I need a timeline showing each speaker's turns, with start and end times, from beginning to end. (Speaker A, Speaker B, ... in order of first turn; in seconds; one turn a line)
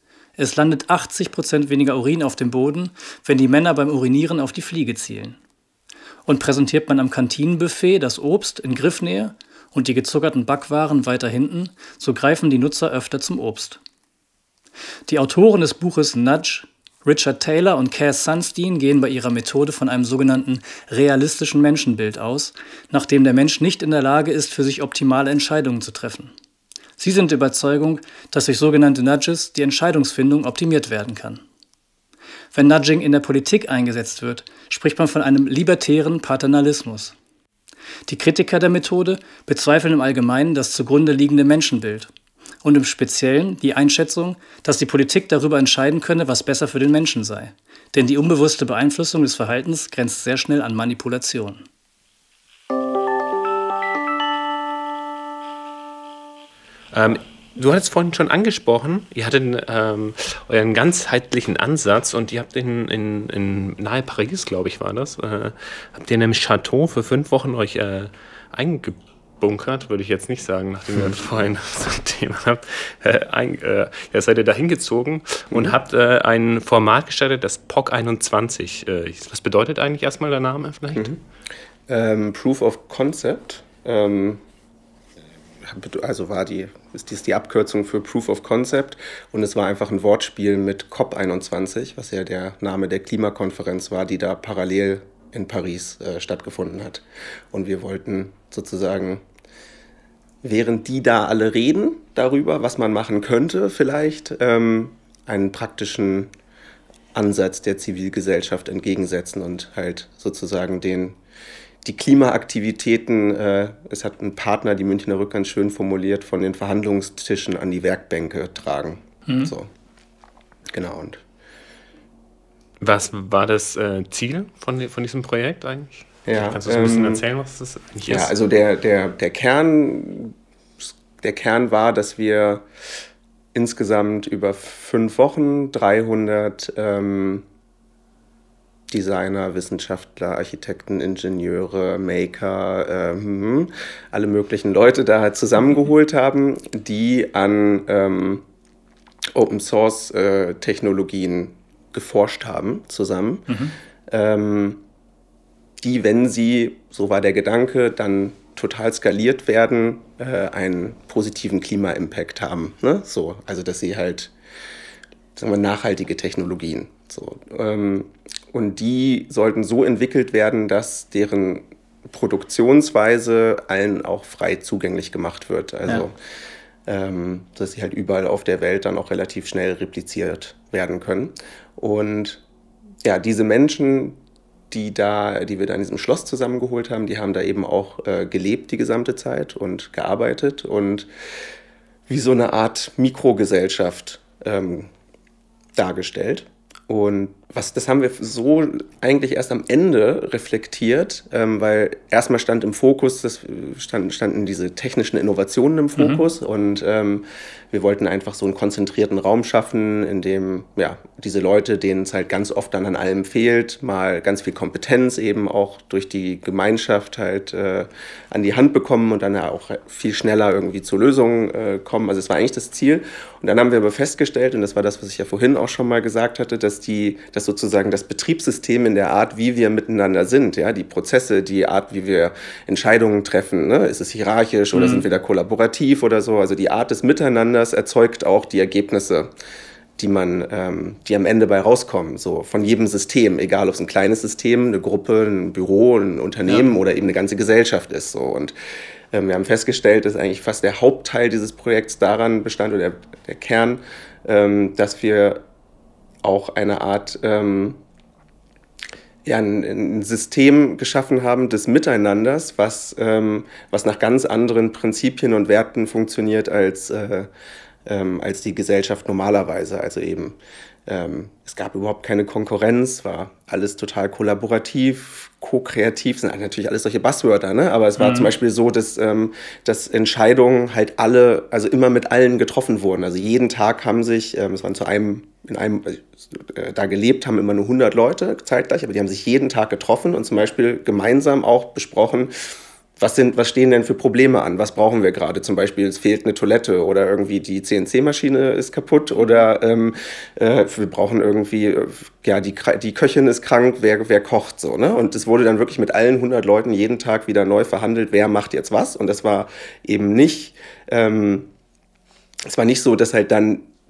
Speaker A: 0.4-5.4
Speaker A: 6.2-13.8
Speaker A: 15.1-26.3
Speaker A: 27.0-31.4
Speaker A: 32.5-37.1
Speaker A: 38.1-42.1
Speaker A: 42.6-51.6
Speaker B: 56.9-81.1
Speaker C: 75.5-75.8
Speaker C: 81.9-84.4
Speaker C: 85.6-99.2
Speaker C: 100.4-106.3
Speaker C: 107.1-111.2
Speaker C: 111.8-119.7
Speaker A: 119.3-119.5
Speaker C: 120.7-121.2
Speaker B: 122.8-128.3
Speaker C: 126.2-127.2
Speaker C: 128.1-132.7
Speaker C: 133.5-137.4
Speaker C: 138.9-148.4
Speaker C: 149.3-153.5
Speaker A: 153.5-153.7
Speaker C: 154.1-154.8
Speaker C: 155.8-164.3
Speaker C: 165.3-176.1
Speaker C: 176.8-182.4
Speaker C: 183.0-184.2
Speaker C: 184.7-191.1
Speaker C: 192.1-194.9
Speaker C: 195.7-239.3
Speaker A: 206.0-206.2
Speaker A: 234.7-235.0
Speaker C: 240.0-248.5
Speaker C: 249.1-255.4
Speaker C: 256.2-257.8
Speaker C: 259.2-267.3
Speaker C: 267.9-292.3
Speaker A: 278.0-278.3
Speaker C: 293.0-311.5
Speaker C: 312.4-313.7